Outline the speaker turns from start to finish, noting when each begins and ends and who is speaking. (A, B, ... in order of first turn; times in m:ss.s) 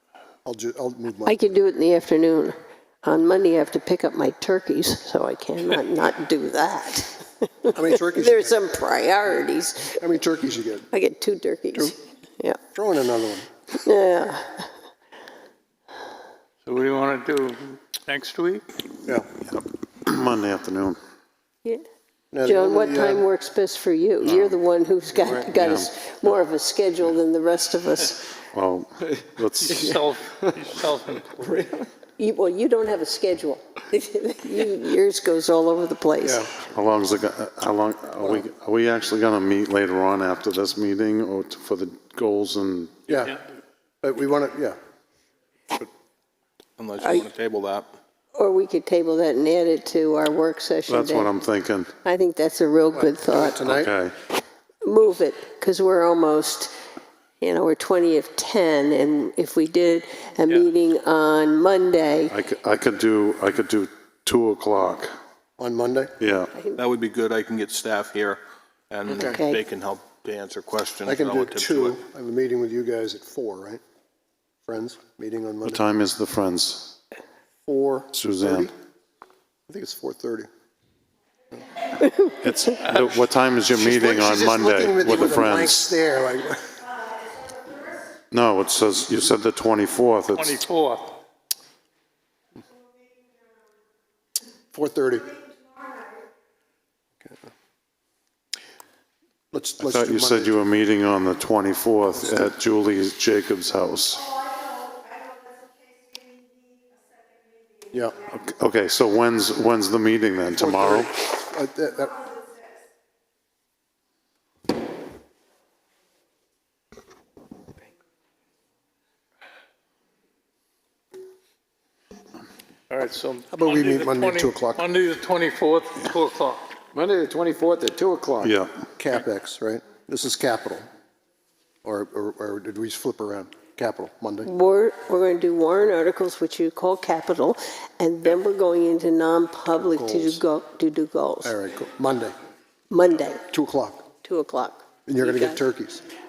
0:00.4-0:01.4 A
0:01.2-0:10.0 B
0:07.7-0:08.6 A
0:10.0-0:10.9 A
0:10.9-0:12.6 B
0:12.7-0:13.5 A
0:13.8-0:14.7 B
0:16.6-0:18.6 C
0:19.5-0:21.0 D
0:22.3-0:23.2 A
0:22.4-0:28.3 B
0:24.2-0:24.6 D
0:25.5-0:25.9 D
0:28.4-0:29.8 D
0:29.6-0:31.6 C
0:29.8-0:30.6 E
0:31.5-0:31.9 E
0:32.2-0:36.4 B
0:36.2-0:36.5 A
0:36.7-0:43.2 D
0:43.1-0:43.4 A
0:44.0-0:44.8 A
0:46.8-0:47.9 F
0:48.3-0:51.3 B
0:50.9-0:51.9 D
0:52.0-0:53.6 B
0:52.9-0:53.9 A
0:53.6-0:54.1 D
0:54.8-0:56.7 B
0:57.4-1:02.3 B
1:02.3-1:05.1 D
1:05.6-1:06.1 A
1:06.2-1:06.5 D
1:06.8-1:12.0 F
1:09.1-1:09.4 E
1:09.1-1:09.6 B
1:11.0-1:13.8 A
1:14.6-1:15.8 A
1:15.6-1:17.0 D
1:17.6-1:18.7 A
1:18.1-1:18.7 D
1:19.7-1:20.5 A
1:22.4-1:25.9 D
1:22.8-1:23.1 C
1:23.7-1:26.8 A
1:28.3-1:30.6 D
1:30.4-1:31.2 C
1:34.7-1:35.3 A
1:39.5-1:40.6 A
1:39.8-1:44.4 D
1:42.2-1:42.5 A
1:48.3-1:51.1 D
1:50.6-1:52.3 A
2:02.9-2:06.7 C
2:03.5-2:04.9 A
2:06.9-2:08.6 E
2:08.4-2:08.7 D
2:09.0-2:10.8 A
2:11.8-2:14.5 A
2:14.4-2:21.5 B
2:19.8-2:20.4 A
2:21.4-2:22.3 A
2:22.9-2:23.4 B
2:23.5-2:24.1 A
2:24.2-2:25.6 B
2:25.1-2:26.0 A